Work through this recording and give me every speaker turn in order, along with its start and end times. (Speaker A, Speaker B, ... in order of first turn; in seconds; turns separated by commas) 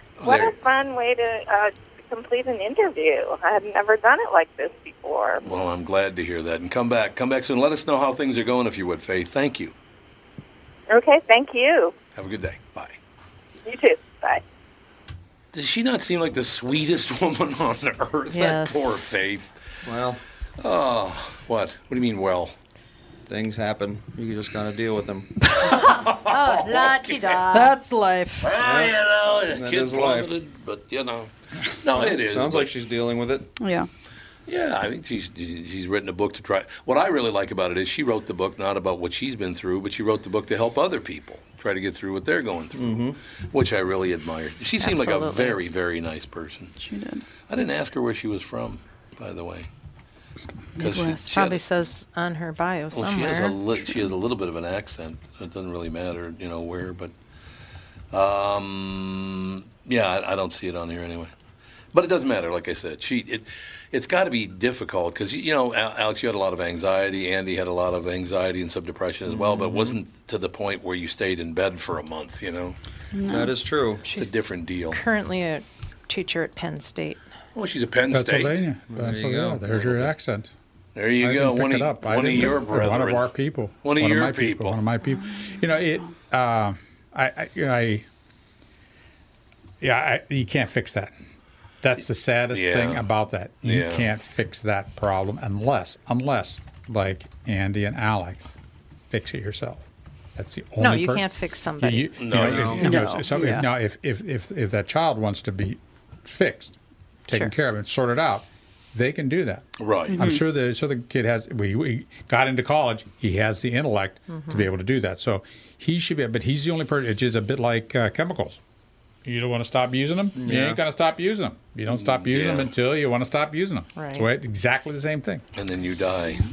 Speaker A: 0.2-0.6, Speaker B: 0.2-5.5, Speaker A: 5.4-9.7, Speaker B: 10.9-11.9, Speaker A: 12.1-12.9, Speaker B: 13.6-14.4, Speaker A: 15.5-19.7, Speaker C: 18.3-19.1, Speaker D: 19.9-20.2, Speaker A: 20.6-22.5, Speaker D: 23.2-25.3, Speaker C: 25.6-27.8, Speaker A: 25.6-27.3, Speaker E: 27.5-28.5, Speaker A: 28.4-32.7, Speaker D: 28.6-29.0, Speaker D: 29.5-30.3, Speaker D: 31.9-33.5, Speaker E: 33.6-33.9, Speaker A: 34.5-46.8, Speaker D: 42.7-43.2, Speaker C: 44.8-45.6, Speaker E: 46.8-47.2, Speaker A: 47.5-49.7, Speaker E: 50.8-51.3, Speaker A: 50.8-51.6, Speaker C: 51.3-53.6, Speaker A: 52.9-57.1, Speaker A: 58.1-61.3, Speaker A: 61.9-72.8, Speaker D: 69.3-70.0, Speaker E: 73.1-73.6, Speaker D: 73.3-74.0, Speaker C: 74.0-74.3, Speaker A: 74.1-75.0, Speaker C: 74.9-77.3, Speaker A: 77.5-78.6, Speaker F: 78.1-80.5, Speaker D: 78.9-79.6, Speaker A: 79.7-80.1, Speaker A: 80.9-83.3, Speaker F: 81.2-88.1, Speaker A: 83.8-84.8, Speaker E: 85.0-86.1, Speaker F: 89.8-91.1, Speaker F: 91.8-98.5, Speaker A: 92.5-93.0, Speaker A: 93.6-94.1, Speaker F: 99.1-101.3, Speaker C: 100.8-103.5, Speaker F: 101.8-118.6, Speaker A: 102.2-102.9, Speaker D: 102.4-102.8, Speaker E: 102.8-103.7, Speaker A: 109.8-110.2, Speaker E: 110.1-110.4, Speaker C: 114.3-114.7, Speaker F: 119.2-125.4, Speaker D: 120.4-120.8, Speaker A: 121.9-122.7, Speaker C: 124.0-124.3, Speaker A: 125.5-126.4